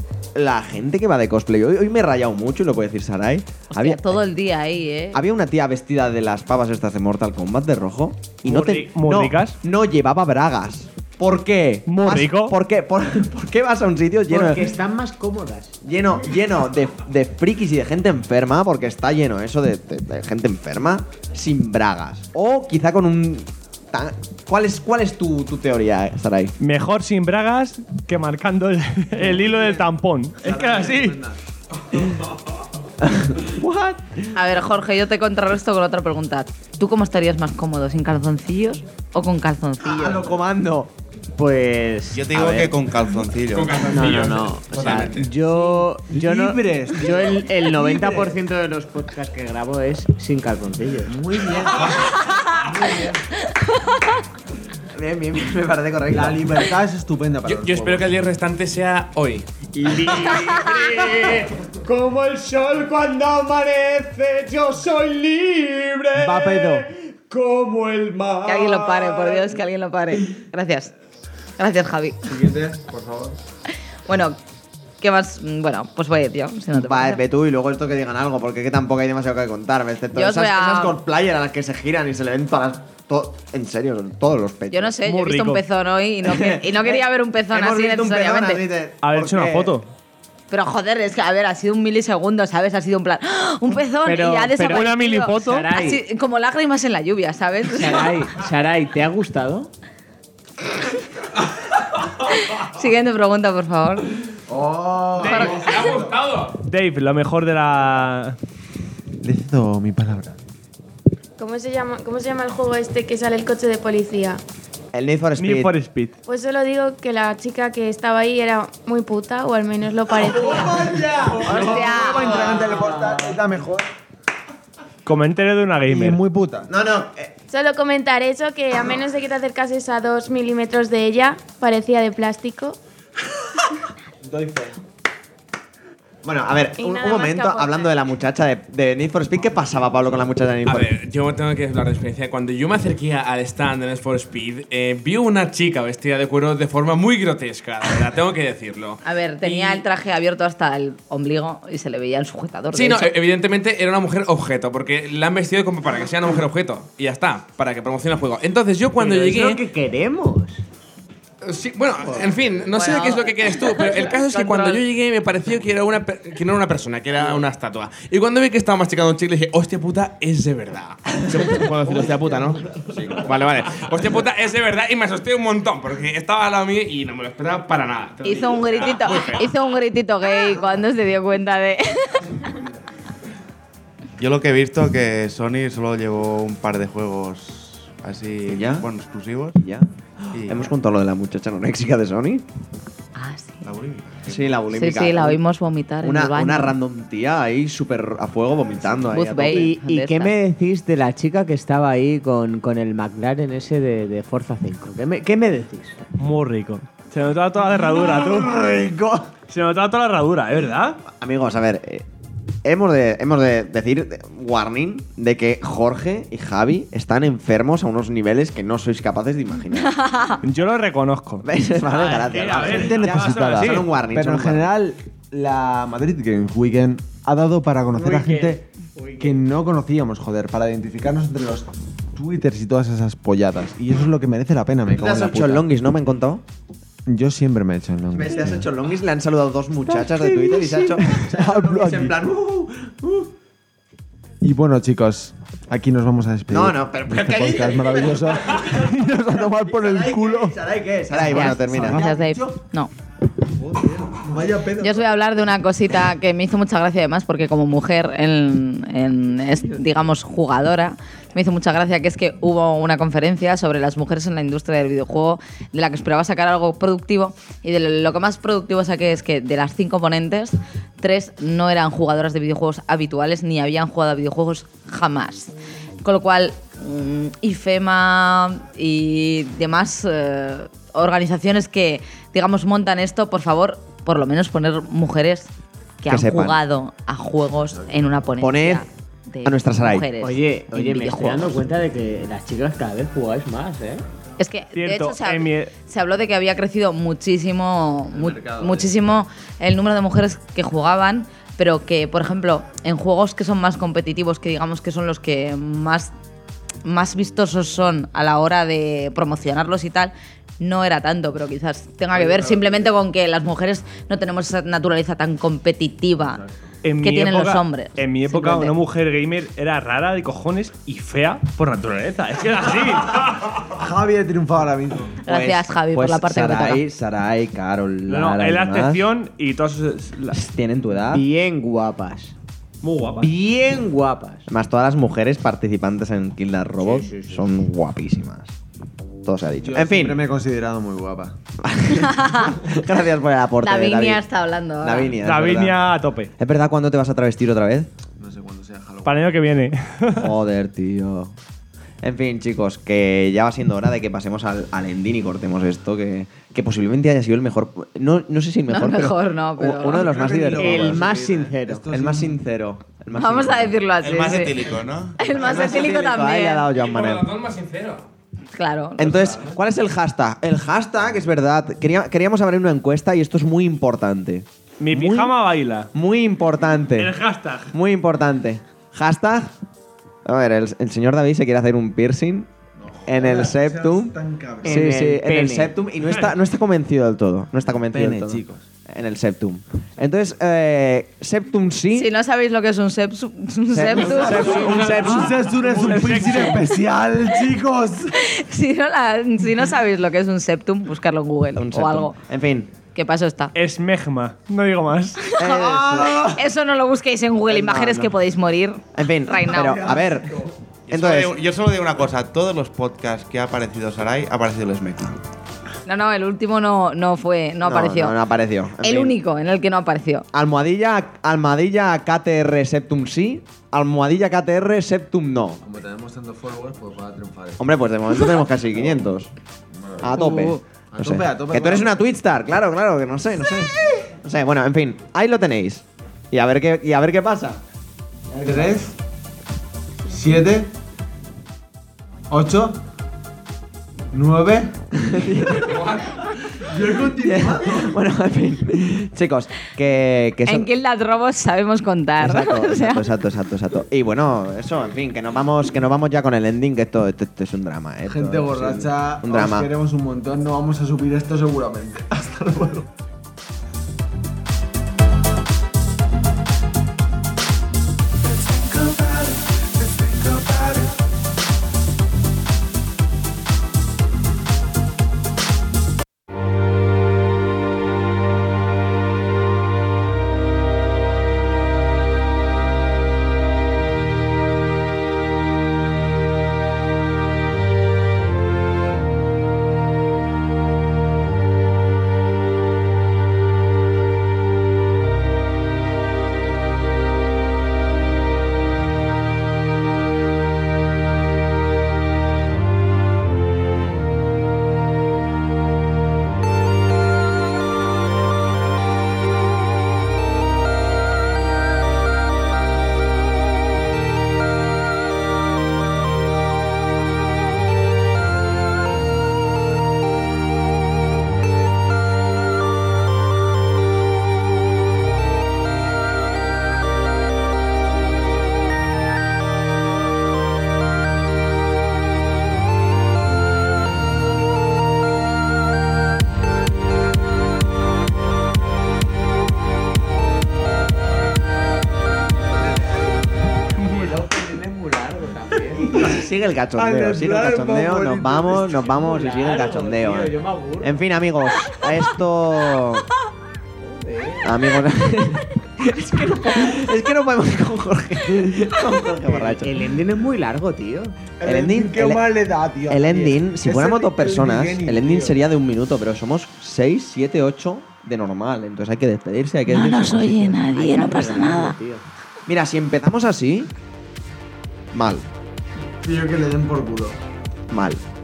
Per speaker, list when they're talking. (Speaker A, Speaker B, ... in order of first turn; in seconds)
Speaker A: 0.3-4.2, 5.1-14.7, 15.8-26.5, 33.0-34.3, 39.8-40.9, 54.9-56.6, 76.7-85.0, 86.2-89.7, 114.9-115.7, 121.5-122.2, 126.7-127.3, 136.2-140.9, 172.8-173.5, 188.5-188.9, 189.6-192.4, 194.2-195.4, 196.0-199.7, 211.1-212.0, 212.6-220.1, 221.4-224.7, 234.9-236.4, 238.1-243.3, 246.5-252.6, 286.1-286.6, 288.4-288.9, 289.4-290.1, 325.3-329.0, 330.3-331.2, 334.5-338.5, 339.2-340.2, 341.6-344.2, 344.8-345.8, 346.4-347.9, 350.1-351.3, 352.0-361.0, 361.9-363.8, 365.3-367.3, 369.0-375.3, 375.9-377.1, 377.7-379.5, 380.2-382.5, 383.1-392.1, 393.7-395.4, 401.6-402.7, 405.4-406.3, 407.5-408.2, 408.9-411.4, 417.6-419.2, 420.3-425.6, 427.6-429.3, 430.0-437.6, 438.3-438.8, 445.0-445.9, 447.1-450.7, 452.2-459.7, 545.9-553.1, 554.4-559.7, 561.4-562.2, 562.9-570.7, 572.5-573.7, 574.9-575.2, 577.7-578.0
Speaker B: 3.7-5.2, 34.3-40.3, 53.5-54.2, 68.4-70.9, 71.6-72.2, 74.1-74.4, 75.0-77.2, 80.1-81.0, 84.7-88.6, 90.5-98.2, 102.3-104.1, 105.2-105.9, 121.5-122.4, 149.0-153.1, 162.7-164.8, 178.2-182.3, 193.2-193.6, 194.7-196.7, 199.1-200.3, 220.0-220.4, 251.3-252.9, 254.8-285.5, 286.0-291.6, 294.4-306.1, 306.9-316.4, 317.0-318.7, 325.2-326.8, 342.1-342.5, 343.6-345.1, 358.7-360.1, 363.1-364.6, 365.2-366.6, 368.5-369.2, 391.9-394.8, 398.1-402.2, 402.9-403.5, 405.2-409.9, 415.9-418.1, 418.8-420.2, 450.5-453.1, 569.7-571.8
Speaker C: 8.4-9.6, 11.9-12.6, 26.6-31.2, 85.0-85.6, 89.0-89.9, 94.6-95.7, 106.7-108.4, 115.4-116.1, 125.0-126.2, 206.2-208.7, 209.5-211.0, 220.4-223.9, 294.7-295.7, 316.8-323.6, 328.1-330.4, 332.8-333.3, 345.2-346.3, 349.0-350.4, 374.8-375.9, 377.0-377.7, 394.5-396.7, 403.5-405.2, 543.8-544.1
Speaker D: 14.3-15.8, 41.3-42.7, 43.9-51.1, 59.8-66.5, 67.4-68.0, 94.0-94.8, 95.4-96.0, 97.7-99.7, 122.5-123.3, 158.9-160.6, 199.4-206.0, 227.9-229.4, 240.1-240.7, 290.2-294.0, 331.1-332.3, 333.2-334.5, 336.8-337.5, 360.6-361.8, 384.6-385.8, 430.1-430.6, 543.9-545.9, 548.9-551.0, 553.8-554.6, 559.3-561.3, 570.7-572.0
Speaker E: 29.2-31.4, 45.7-48.4, 51.0-53.2, 56.1-58.1, 59.9-60.2, 62.8-63.5, 66.1-69.3, 72.2-73.4, 104.5-106.1, 109.2-110.3, 120.1-123.9, 125.9-126.7, 134.2-134.8, 207.9-209.3, 222.6-228.6, 229.2-235.7, 237.1-238.7, 241.1-242.2, 244.4-250.6, 251.1-252.2, 253.7-255.1, 298.1-299.0, 323.6-325.2, 339.6-341.4, 348.2-349.6, 359.8-362.4, 382.8-385.0, 387.9-388.6, 393.9-398.1, 405.5-406.4, 409.5-410.5, 425.6-427.8, 428.7-429.1, 429.7-432.0, 438.4-438.9, 440.1-440.7, 442.3-442.8, 444.1-445.3, 446.6-448.0, 458.0-462.9, 468.2-470.9, 545.7-548.9, 561.4-565.4, 576.0-577.2
Speaker F: 42.1-43.9, 44.7-45.2, 184.2-189.6, 190.3-190.7, 193.6-194.7, 364.0-365.3, 410.9-415.2
Speaker G: 43.5-45.2, 57.4-59.5, 105.2-106.6, 140.6-149.0, 152.7-159.6, 161.4-172.6, 173.2-179.6, 366.7-368.0, 445.6-446.2
Speaker H: 111.4-114.4, 116.3-121.0, 127.5-132.8, 136.8-138.0